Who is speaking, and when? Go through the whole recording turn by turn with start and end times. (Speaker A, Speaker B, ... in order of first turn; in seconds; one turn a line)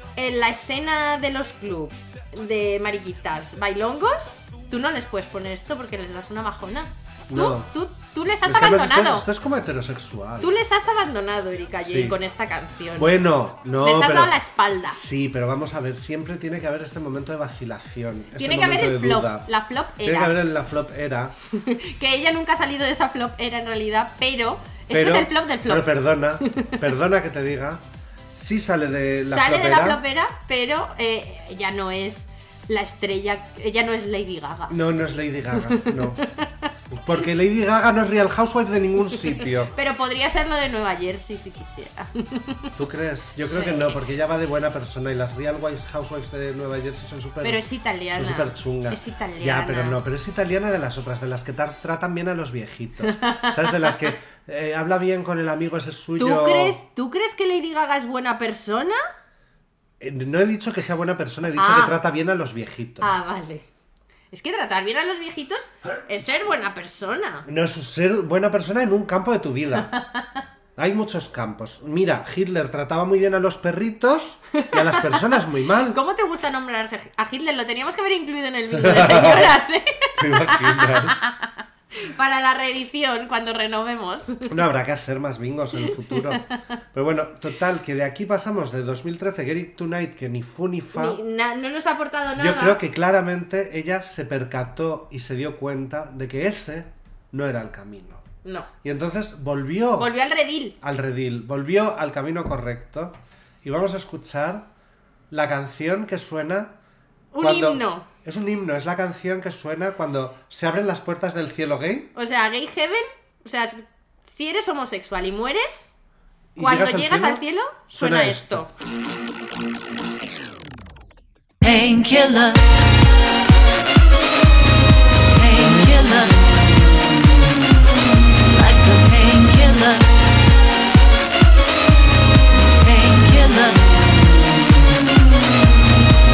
Speaker A: 0.1-9.3
Speaker B: 7.3-7.7
Speaker B: 8.4-10.5
Speaker A: 10.4-13.2
Speaker B: 11.8-12.2
Speaker B: 13.0-19.5
Speaker A: 13.8-15.0
Speaker A: 18.4-20.3
Speaker B: 20.0-21.3
Speaker A: 21.5-26.8
Speaker B: 24.9-30.0
Speaker A: 29.3-34.8
Speaker B: 34.7-36.2
Speaker A: 35.5-36.7
Speaker B: 36.9-39.7
Speaker A: 39.1-42.7
Speaker B: 42.8-47.6
Speaker A: 43.4-44.0
Speaker A: 47.4-50.0
Speaker B: 48.1-56.8
Speaker A: 53.0-54.1
Speaker A: 56.2-59.0
Speaker B: 60.0-63.2
Speaker A: 61.5-62.0
Speaker A: 63.0-63.6
Speaker A: 64.3-67.5
Speaker B: 67.5-69.9
Speaker A: 69.8-70.4
Speaker B: 70.8-76.0
Speaker A: 74.5-75.3
Speaker A: 75.9-84.5
Speaker B: 78.7-79.6
Speaker B: 80.2-81.2
Speaker B: 84.5-91.2
Speaker A: 86.2-86.4
Speaker A: 90.9-92.8
Speaker B: 92.4-98.2
Speaker A: 98.4-98.7
Speaker B: 98.8-100.1
Speaker A: 100.0-100.7
Speaker B: 100.8-104.7
Speaker B: 105.3-106.7
Speaker A: 107.3-108.0
Speaker B: 107.4-112.1
Speaker A: 112.1-115.9
Speaker B: 116.5-118.7
Speaker A: 116.6-118.7
Speaker C: 121.6-122.7
Speaker C: 125.3-126.4
Speaker C: 128.5-130.1
Speaker C: 132.8-133.8